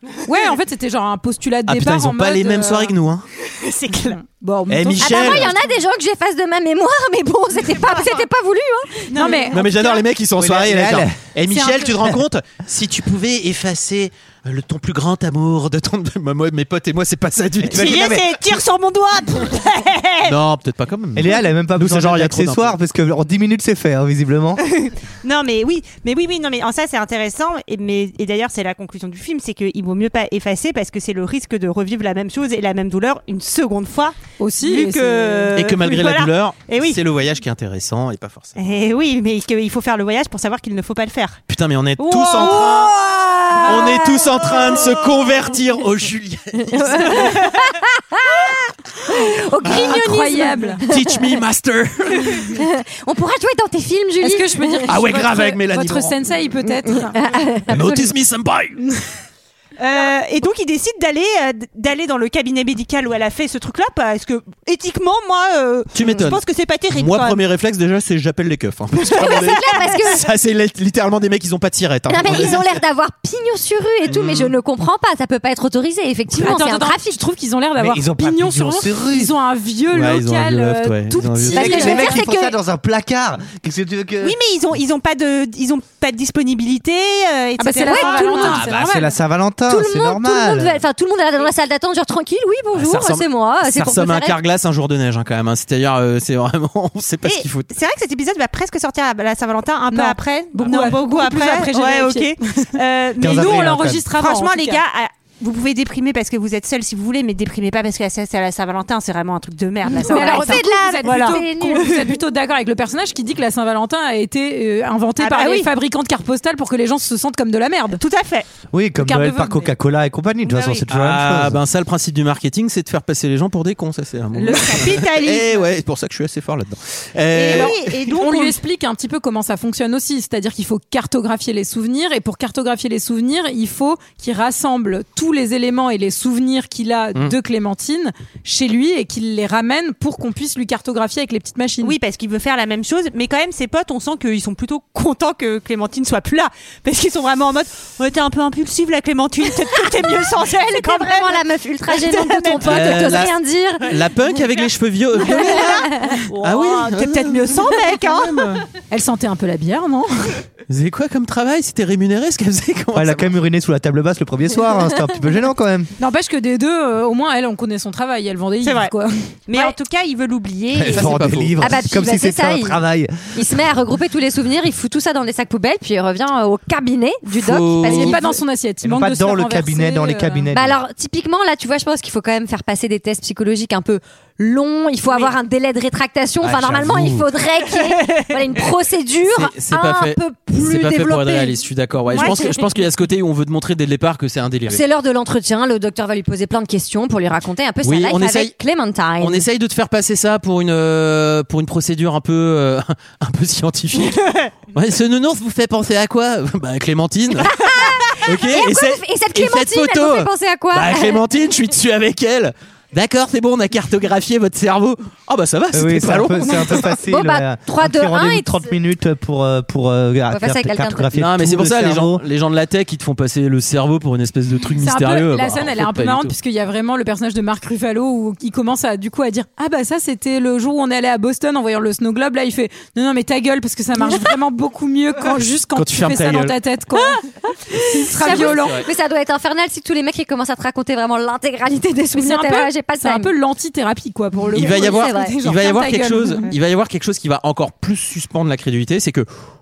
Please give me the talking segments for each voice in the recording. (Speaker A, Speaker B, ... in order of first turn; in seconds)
Speaker A: 0.2-2.9, 4.1-5.6, 9.2-9.6, 11.5-11.9, 34.4-35.5, 49.7-50.8, 54.2-57.2, 57.7-58.1, 76.3-82.2, 87.6-89.1, 99.9-102.7, 103.2-104.8, 109.9-118.0, 119.0-119.7, 127.5-141.9, 158.9-160.4, 166.0-169.8, 177.8-180.5, 224.8-238.8, 242.2-246.5
Speaker B: 1.7-3.2, 4.7-5.5, 9.5-18.1, 20.2-22.8, 35.5-38.5, 41.5-42.9, 43.6-47.3, 49.6-50.0, 50.8-52.6, 54.9-56.1, 57.7-58.8, 65.9-72.8, 74.1-74.5, 79.9-81.8, 92.7-97.7, 120.9-127.8, 152.6-157.6, 160.7-163.4, 170.8-171.6, 177.3-178.3, 186.4-187.2, 189.3-194.8, 197.8-198.6, 199.2-204.2, 204.7-207.6, 208.2-216.9, 221.1-226.3, 235.7-236.6, 238.2-238.9, 244.5-249.3
Speaker C: 3.5-4.2, 7.8-8.1, 9.1-10.0, 17.7-20.4, 24.8-37.0, 38.6-41.4, 42.0-42.9, 59.8-67.4, 69.2-69.9, 84.2-88.7, 97.2-112.1, 115.2-115.7, 117.9-118.5, 120.5-120.8, 124.4-125.7, 127.3-128.6, 141.8-153.3, 155.2-158.6, 168.6-168.9, 169.5-171.2, 185.1-185.3, 187.7-188.4, 203.9-204.5
Speaker D: 5.0-9.1, 42.4-44.9, 46.7-51.1, 52.5-54.9, 57.0-57.8, 69.2-70.3, 72.1-77.2, 81.5-82.5, 87.8-88.7, 89.7-94.4, 109.9-112.0, 149.9-153.9, 171.6-172.8, 173.3-178.3, 180.5-191.6, 192.1-192.6, 194.7-199.4, 207.4-211.2, 217.1-218.7, 220.3-221.1, 234.1-234.3, 237.7-243.3, 244.6-245.4
Speaker E: 10.3-11.2, 17.6-18.5, 21.1-24.6, 77.8-79.3, 81.5-84.3, 88.6-90.8, 103.2-104.1, 118.7-121.6, 162.9-165.9, 170.7-173.6, 178.8-180.8, 215.7-222.2